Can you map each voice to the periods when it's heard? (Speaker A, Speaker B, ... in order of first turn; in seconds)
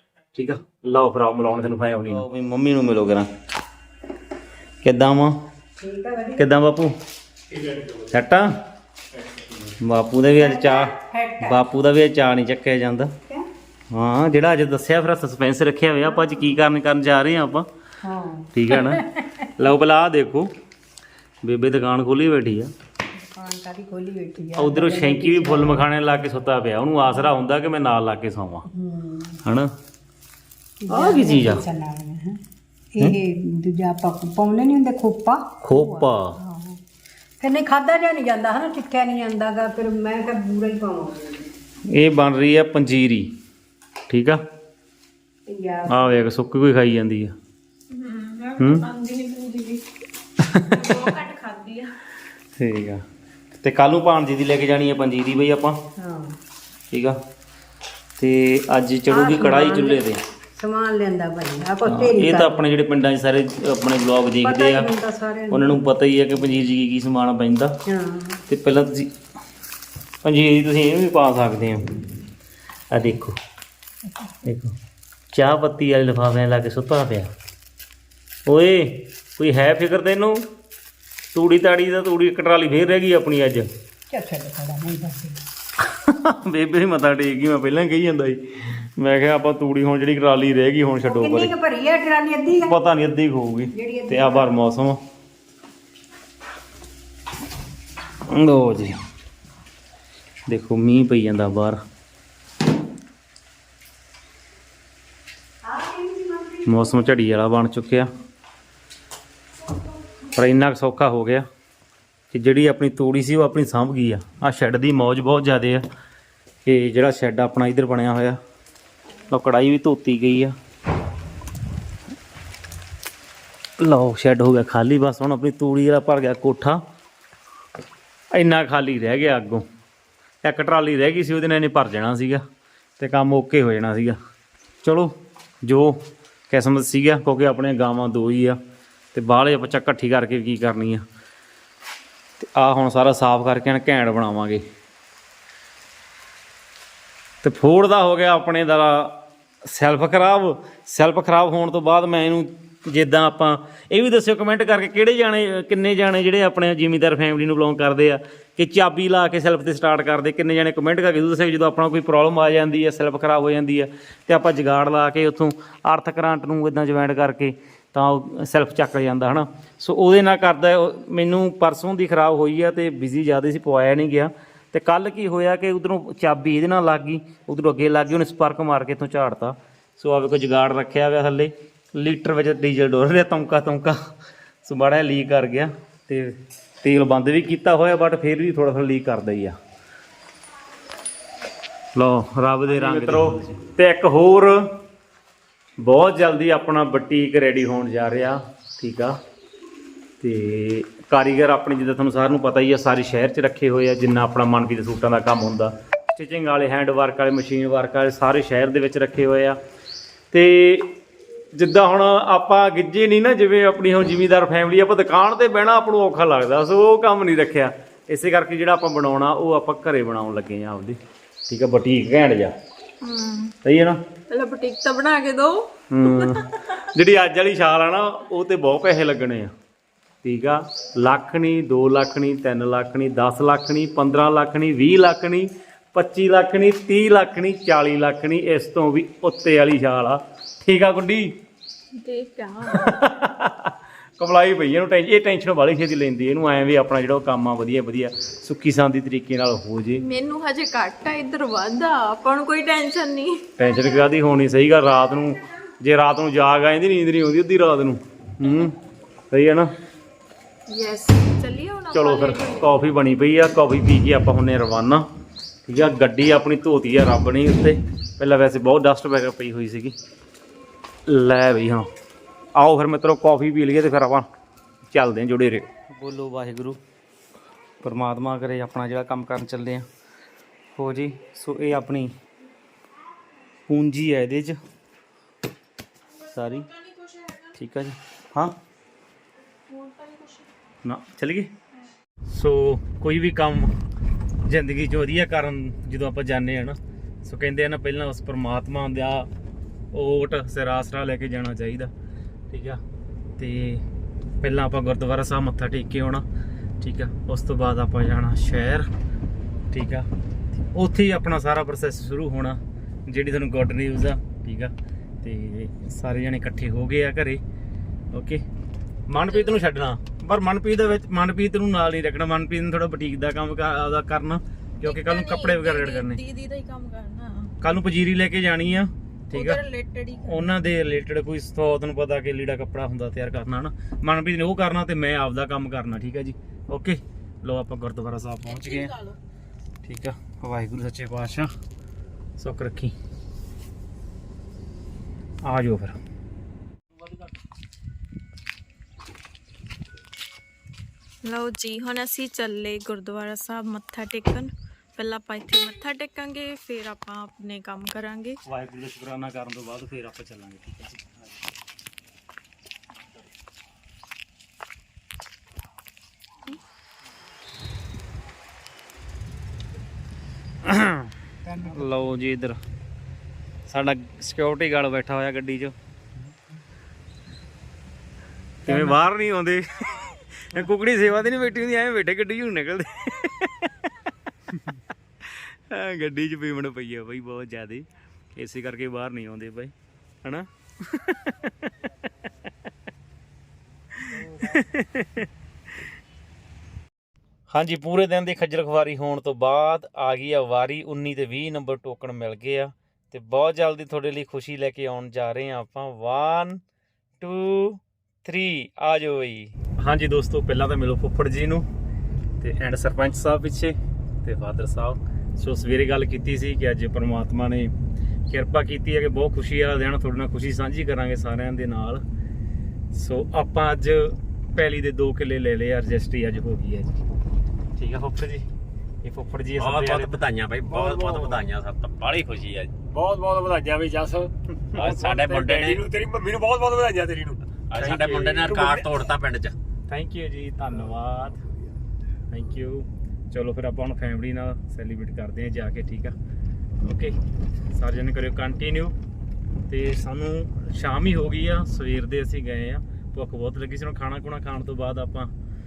Speaker A: 0.3-3.3, 4.8-5.4, 6.4-6.9, 8.1-8.5, 9.8-13.1, 13.9-17.7, 18.5-19.0, 19.6-20.5, 21.4-22.7, 24.6-28.7, 29.4-29.7, 30.9-31.6, 35.6-36.4, 41.9-43.3, 44.1-44.4, 45.9-47.3, 48.6-48.9, 50.4-51.0, 52.6-53.0, 53.6-55.8, 56.9-57.2, 58.2-60.2, 61.9-64.9, 65.5-67.8, 68.5-69.1, 70.2-71.8, 72.9-73.4, 74.4-74.8, 75.3-77.3, 78.5-80.4, 81.3-83.7, 85.8-91.5, 92.6-95.0, 98.3-99.0, 100.5-101.8, 106.7-108.1, 110.3-111.5, 112.3-115.8, 116.7-118.4, 119.3-120.5, 123.8-126.8, 128.3-129.6, 130.4-132.4, 133.0-134.2, 134.8-135.1, 135.7-138.6, 139.1-141.0, 142.4-144.6, 147.4-184.0, 184.6-189.6, 191.9-194.6, 195.8-199.2, 200.2-209.6, 210.3-210.9, 211.6-222.5, 223.6-224.0, 225.9-229.5, 230.2-241.3, 242.7-250.0, 253.6-258.8, 259.3-259.7, 261.9-265.1, 265.7-269.9, 271.1-271.9, 272.6-274.3, 274.9-276.8, 277.8-279.9, 280.7-282.1, 283.7-284.6, 286.3-286.7, 287.5-288.6, 290.8-291.5, 292.3-293.8, 294.4-299.3, 299.9-301.9, 302.5-302.8, 303.4-303.9, 304.4-306.2, 306.8-308.9, 309.7-310.1, 310.7-317.4, 318.1-318.4, 319.1-326.2, 327.6-329.6, 330.2-338.9, 339.8-341.5, 342.4-342.9, 345.4-346.0, 358.4-361.2, 370.6-372.6, 373.7-375.8, 378.6-383.7, 385.3-389.7, 390.2-391.7, 394.1-395.3, 397.5-406.6, 407.2-411.6, 412.4-417.7, 418.3-422.0, 422.9-427.0, 427.8-428.5, 429.0-430.2, 430.8-431.4, 437.7-438.9, 439.9-441.4, 442.3-446.1, 446.8-447.2, 447.7-448.9, 449.7-455.3
Speaker B: 5.8-6.4, 10.4-11.6, 16.2-16.6, 18.0-19.5, 23.1-25.9, 28.7-29.4, 30.8-32.4, 32.9-36.8, 37.4-41.5, 45.5-46.3, 56.0-56.4, 59.1-62.6, 64.4-65.8, 67.9-68.4, 84.1-85.4, 91.0-92.8, 93.7-94.5, 105.7-106.8, 371.5-371.8
Speaker C: 47.9-49.8, 50.7-52.0, 223.0-223.5, 224.3-226.4, 241.9-243.0, 250.0-253.4, 258.4-258.7, 260.7-262.7, 289.8-290.4, 324.8-327.5, 329.3-330.3, 338.6-339.2, 351.2-358.4
Speaker D: 429.6-432.8, 434.7-435.8, 437.7-439.6
Speaker E: 430.6-431.3, 432.9-437.5